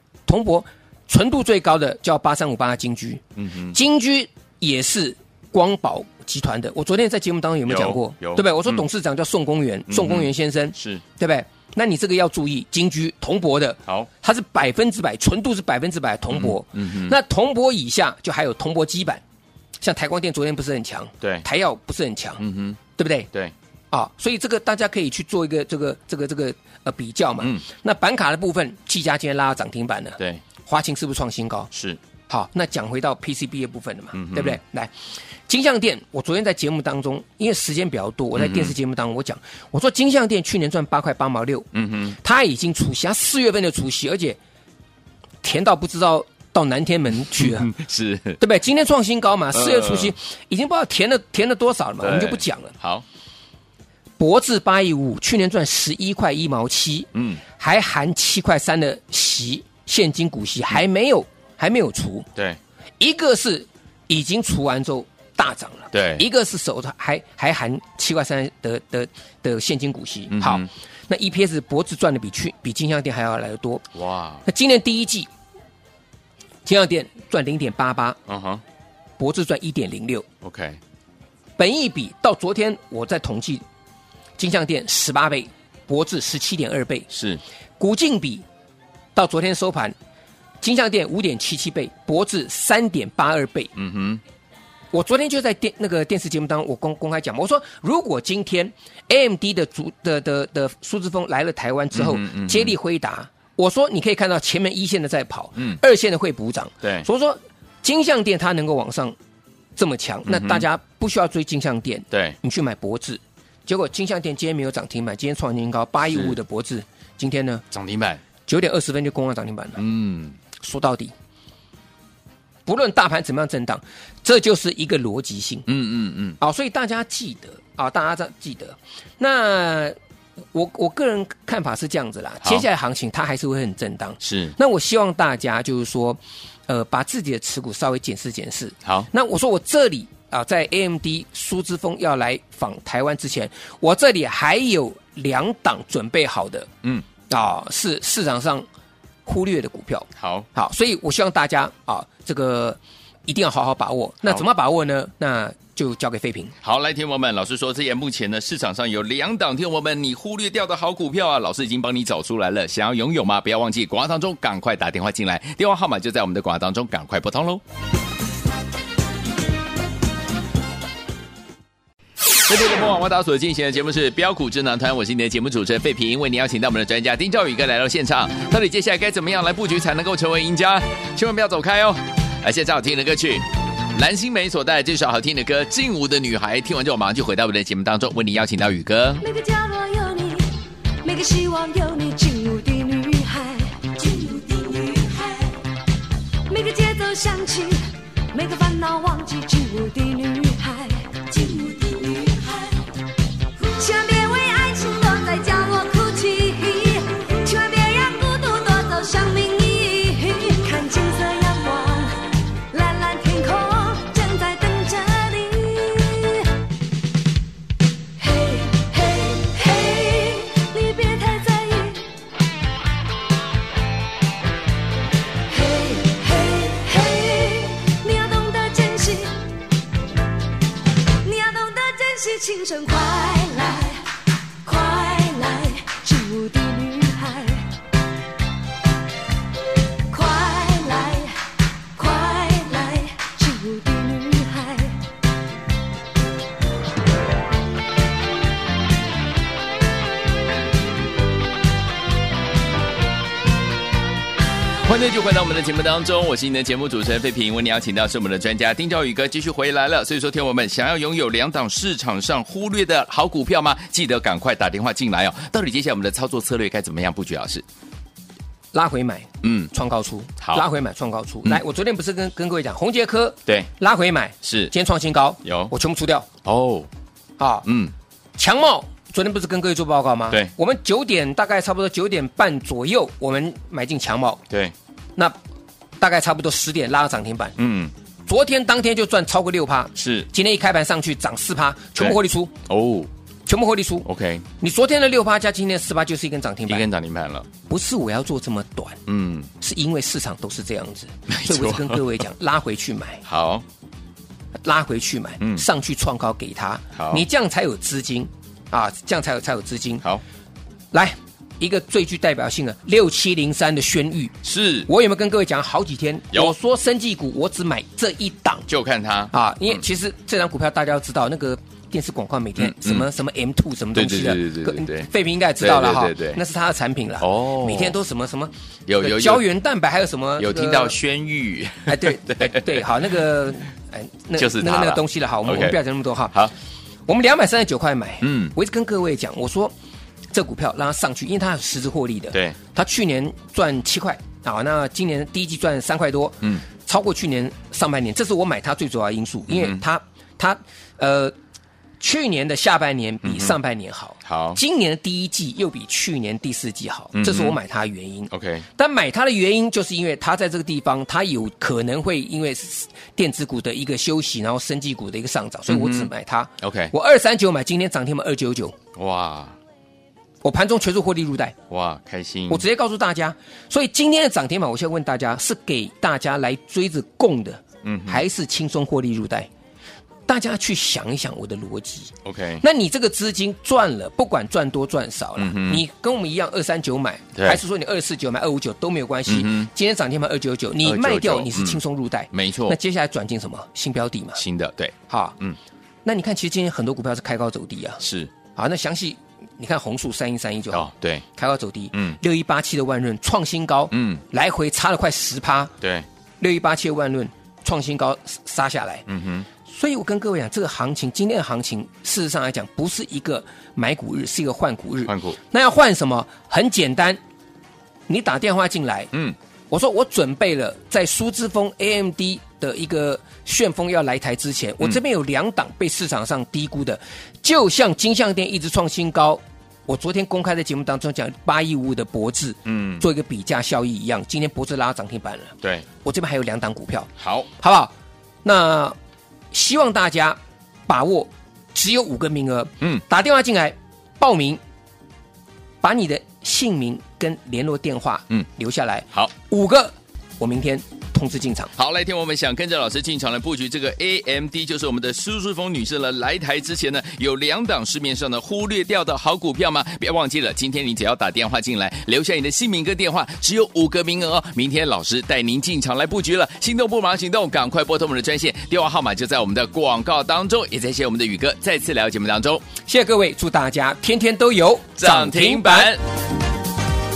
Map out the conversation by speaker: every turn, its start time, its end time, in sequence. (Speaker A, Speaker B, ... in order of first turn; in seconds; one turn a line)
Speaker A: 0.2-19.2
Speaker B: 3.4-3.8
Speaker B: 7.7-8.8
Speaker B: 9.9-11.0
Speaker B: 16.3-17.1
Speaker A: 19.8-22.4
Speaker B: 22.4-22.8
Speaker A: 23.0-23.3
Speaker A: 23.9-31.7
Speaker B: 31.7-32.0
Speaker A: 32.3-34.9
Speaker B: 34.1-34.6
Speaker A: 35.5-41.6
Speaker B: 38.4-38.7
Speaker B: 41.7-42.1
Speaker A: 42.2-44.4
Speaker A: 45.4-47.7
Speaker B: 47.4-48.4
Speaker A: 48.4-52.7
Speaker B: 49.5-50.1
Speaker B: 52.0-53.0
Speaker A: 54.2-62.3
Speaker B: 57.1-57.4
Speaker A: 63.0-73.8
Speaker B: 65.9-66.2
Speaker B: 70.3-70.7
Speaker B: 73.9-74.4
Speaker A: 74.5-75.3
Speaker A: 76.6-78.2
Speaker B: 78.3-78.6
Speaker A: 79.2-80.2
Speaker B: 80.4-80.8
Speaker A: 81.6-83.6
Speaker A: 84.4-87.1
Speaker B: 87.1-87.4
Speaker A: 87.8-88.4
Speaker A: 89.1-89.9
Speaker A: 90.6-93.7
Speaker B: 93.8-94.2
Speaker A: 94.9-109.2
Speaker B: 101.9-102.7
Speaker A: 109.8-117.6
Speaker B: 110.2-110.7
Speaker B: 112.1-112.4
Speaker B: 116.1-116.3
Speaker B: 117.7-118.2
Speaker A: 118.5-119.8
Speaker B: 119.8-120.4
Speaker A: 120.6-121.1
Speaker A: 122.7-125.7
Speaker B: 125.7-126.4
Speaker A: 126.4-129.9
Speaker A: 130.5-146.7
Speaker B: 134.2-134.6
Speaker B: 138.8-139.1
Speaker A: 147.3-148.7
Speaker A: 149.2-156.5
Speaker B: 150.2-150.5
Speaker B: 156.6-167.6
Speaker B: 172.4-189.2
Speaker C: 189.2-190.5
Speaker C: 191.0-195.5
Speaker C: 196.5-202.8
Speaker C: 203.6-212.2
Speaker C: 212.7-216.5
Speaker C: 218.2-222.1
Speaker C: 225.5-229.5
Speaker C: 231.2-234.1
Speaker C: 234.6-237.7
Speaker C: 240.1-241.4
Speaker C: 241.9-245.0
Speaker B: 254.8-267.6
Speaker A: 268.7-276.3
Speaker B: 269.4-269.7
Speaker B: 270.4-270.7
Speaker B: 273.4-273.7
Speaker B: 274.4-274.7
Speaker B: 275.4-275.7
Speaker B: 276.4-276.9
Speaker A: 277.4-277.6
Speaker B: 277.6-277.9
Speaker A: 278.4-284.4
Speaker A: 286.0-287.5
Speaker B: 287.6-287.9
Speaker A: 288.3-292.5
Speaker B: 289.9-290.3
Speaker B: 292.0-293.1
Speaker A: 293.4-296.9
Speaker B: 294.0-294.4
Speaker B: 296.7-297.5
Speaker A: 297.7-299.0
Speaker B: 299.1-299.5
Speaker A: 299.6-303.2
Speaker B: 301.3-302.2
Speaker B: 303.2-303.6
Speaker A: 304.6-310.0
Speaker B: 306.9-307.2
Speaker A: 310.9-314.3
Speaker B: 314.4-314.9
Speaker A: 314.9-318.7
Speaker B: 318.7-319.8
Speaker A: 319.3-330.9
Speaker B: 322.6-323.1
Speaker B: 323.9-326.4
Speaker B: 327.2-328.0
Speaker B: 328.9-329.4
Speaker B: 330.4-332.8
Speaker A: 331.9-336.4
Speaker B: 334.4-335.8
Speaker A: 337.1-339.7
Speaker B: 338.2-338.5
Speaker A: 340.3-351.3
Speaker B: 349.5-349.8
Speaker A: 352.0-368.8
Speaker B: 353.2-353.6
Speaker B: 354.2-354.6
Speaker B: 357.1-357.6
Speaker B: 358.3-358.7
Speaker B: 365.7-366.9
Speaker B: 368.9-369.6
Speaker A: 370.4-371.6
Speaker B: 371.7-372.6
Speaker A: 372.5-379.5
Speaker B: 377.8-378.2
Speaker A: 380.3-394.4
Speaker B: 382.2-382.6
Speaker B: 385.4-385.8
Speaker B: 387.3-387.6
Speaker B: 389.3-389.7
Speaker B: 390.8-391.8
Speaker B: 392.3-392.8
Speaker B: 394.4-395.6
Speaker A: 395.1-395.4
Speaker A: 396.0-398.0
Speaker B: 398.0-398.3
Speaker A: 398.5-405.7
Speaker B: 400.7-401.2
Speaker B: 403.9-404.2
Speaker B: 405.8-406.1
Speaker A: 406.4-409.0
Speaker B: 409.1-409.5
Speaker A: 409.6-417.2
Speaker B: 415.1-415.4
Speaker A: 418.1-419.1
Speaker A: 419.7-437.9
Speaker B: 432.6-433.0
Speaker B: 437.2-437.5
Speaker A: 438.4-438.9
Speaker A: 439.5-444.6
Speaker A: 445.8-451.7
Speaker B: 451.7-472.6
Speaker A: 472.8-475.9
Speaker B: 475.0-476.0